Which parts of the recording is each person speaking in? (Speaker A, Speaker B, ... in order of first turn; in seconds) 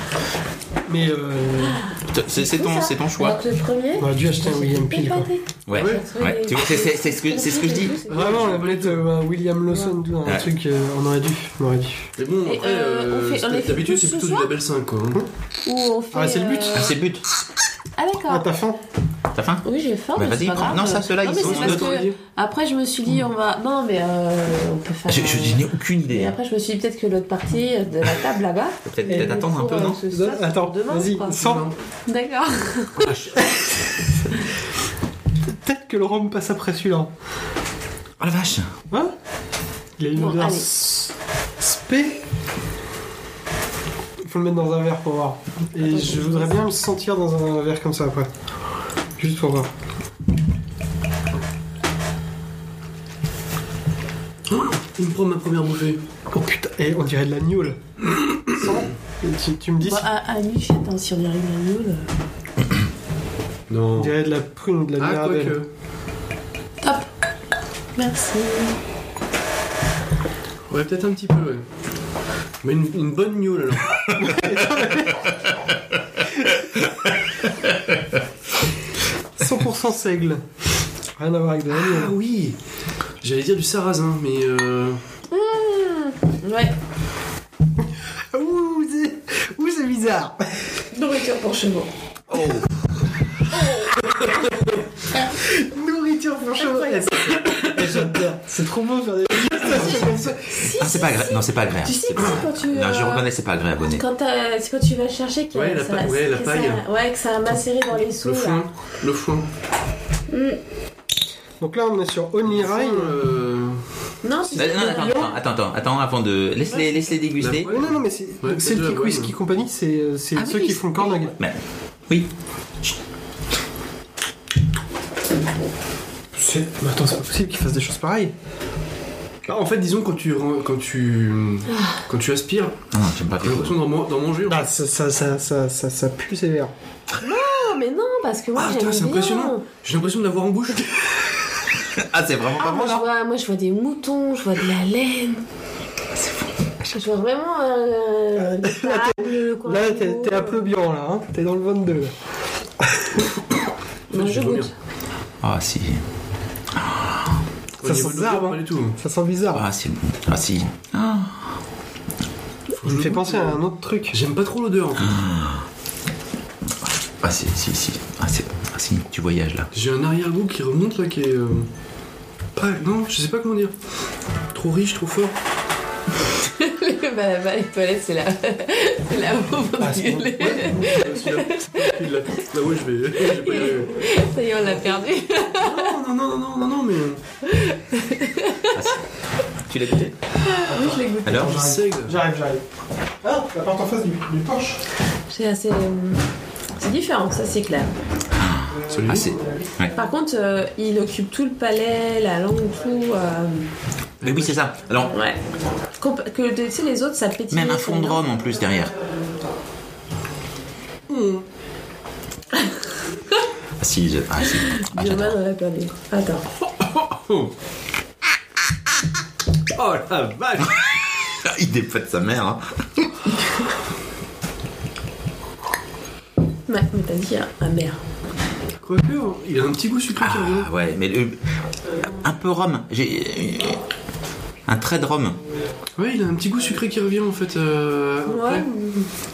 Speaker A: 0.9-1.8, 4.0-5.3, 8.1-12.1, 16.1-16.9, 18.3-18.8, 29.1-31.7, 33.4-33.8, 35.5-37.1, 38.9-39.1, 40.0-42.3, 44.2-48.3, 49.2-49.7, 56.3-57.8, 58.5-60.1, 64.0-65.6, 74.2-75.3, 79.4-80.4, 81.2-82.1, 88.3-90.7, 95.4-100.7, 111.6-113.2, 114.5-115.3, 117.7-121.3, 126.3-128.3, 134.5-136.7, 148.4-152.2, 152.8-153.1, 157.8-159.7, 162.8-164.2, 179.8-181.3, 190.7-192.7, 193.2-194.8, 198.7-199.9
Speaker B: 2.0-3.4, 5.7-8.0, 16.7-17.2, 19.3-21.9, 25.1-26.3, 28.9-30.0, 33.0-33.4, 38.2-38.7, 92.3-92.7, 100.7-104.0, 114.5-117.7, 121.4-122.3, 132.9-133.8, 141.9-143.1, 155.4-156.0, 156.8-157.3, 159.5-161.4, 165.0-165.7, 166.8-169.7, 188.7-189.0, 189.6-190.2, 191.2-191.6, 198.3-199.9, 204.2-205.1, 207.5-208.9, 213.8-215.3, 221.2-223.3, 230.2-231.4, 232.2-233.8, 234.7-235.4
Speaker C: 2.4-8.4, 12.5-14.5, 15.6-16.9, 18.0-18.5, 19.6-33.1, 40.1-40.7, 45.8-46.6, 59.8-62.1, 66.8-67.1, 68.0-68.8, 85.3-86.8, 90.9-91.9, 93.6-93.9, 96.6-97.7, 100.5-103.3, 103.9-108.6, 110.3-110.6, 114.2-115.3, 120.4-121.2, 131.7-132.0, 137.2-139.7, 142.6-145.4, 146.8-150.7, 154.1-154.7, 176.4-182.1, 183.2-185.9, 187.4-188.9, 190.4-191.6, 195.3-197.9, 199.9-203.7, 205.1-205.4, 206.0-208.2, 214.6-216.4, 226.7-228.0, 238.3-239.1
Speaker D: 5.7-6.0, 8.1-9.1, 12.2-15.2, 21.2-22.2, 31.4-31.8, 54.5-56.0, 63.7-64.2, 65.0-65.7, 70.7-71.7, 72.6-74.5, 81.7-82.6, 83.2-85.0, 99.8-100.2, 105.5-106.8, 108.2-109.5, 112.5-113.8, 117.4-119.3, 129.5-132.8, 133.4-134.7, 138.6-141.6, 154.1-154.7, 157.8-159.0, 162.8-165.1, 169.7-171.7, 172.6-173.8, 174.5-175.3, 180.5-184.0, 185.5-187.2, 191.4-192.2, 198.9-199.3, 204.2-204.6, 211.1-211.4, 216.8-217.5, 219.7-220.8, 228.8-230.7, 236.0-238.7